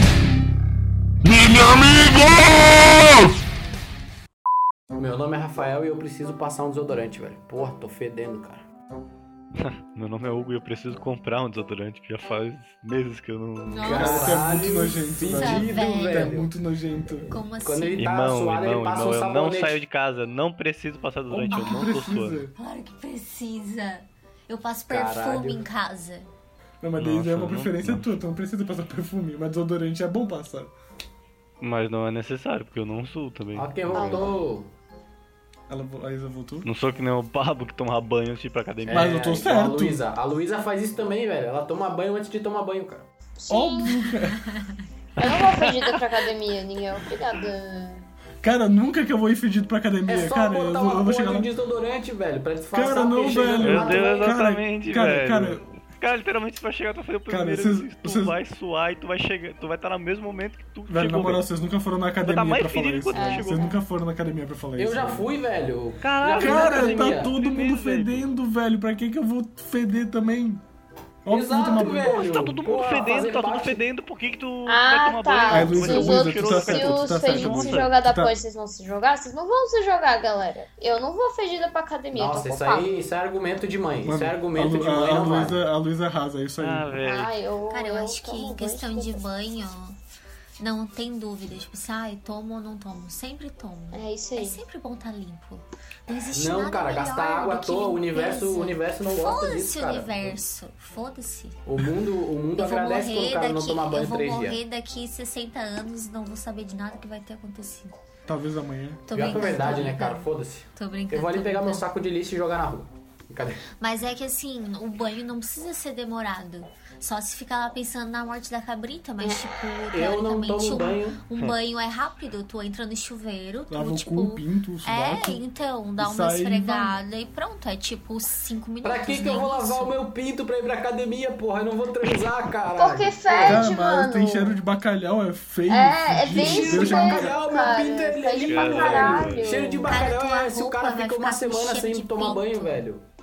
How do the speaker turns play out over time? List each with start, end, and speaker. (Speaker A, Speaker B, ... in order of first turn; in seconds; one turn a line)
Speaker A: 5.0-8.7
Speaker B: 9.6-13.9
Speaker C: 13.7-16.4
Speaker A: 13.8-16.5
Speaker D: 13.9-17.4
Speaker C: 17.3-18.1
Speaker A: 17.6-19.8
Speaker B: 18.0-22.4
Speaker D: 21.3-22.5
Speaker C: 21.5-21.9
Speaker C: 22.6-26.3
Speaker A: 24.9-25.6
Speaker D: 26.8-30.7
Speaker B: 27.0-28.1
Speaker B: 31.6-34.2
Speaker A: 33.5-34.7
Speaker E: 33.9-34.4
Speaker D: 35.7-36.7
Speaker B: 36.6-39.1
Speaker A: 38.8-43.1
Speaker D: 38.9-40.0
Speaker E: 43.4-44.1
Speaker D: 43.5-44.5
Speaker E: 45.2-48.1
Speaker B: 45.2-46.0
Speaker D: 48.4-51.5
Speaker A: 50.1-54.3
Speaker D: 52.7-55.6
Speaker B: 53.6-61.5
Speaker D: 57.3-58.4
Speaker D: 60.9-65.3
Speaker B: 62.2-63.7
Speaker E: 63.1-63.8
Speaker A: 64.8-67.3
Speaker B: 66.0-68.3
Speaker D: 66.4-70.6
Speaker D: 71.2-72.2
Speaker A: 71.3-73.8
Speaker B: 71.7-77.9
Speaker E: 74.7-83.0
Speaker D: 75.5-78.3
Speaker A: 82.1-85.6
Speaker D: 84.0-86.9
Speaker B: 86.6-87.3
Speaker E: 87.0-89.2
Speaker C: 87.7-90.0
Speaker C: 90.6-101.6
Speaker E: 93.9-94.6
Speaker A: 96.3-100.4
Speaker A: 101.7-104.6
Speaker C: 102.6-108.0
Speaker D: 108.3-109.0
Speaker C: 109.1-111.8
Speaker A: 109.1-113.6
Speaker C: 113.8-130.0
Speaker A: 119.9-121.2
Speaker D: 123.7-125.4
Speaker D: 126.0-127.0
Speaker A: 128.8-133.7
Speaker E: 132.8-134.6
Speaker D: 133.4-137.3
Speaker E: 135.7-140.0
Speaker A: 136.3-143.0
Speaker B: 138.4-139.6
Speaker C: 139.8-142.8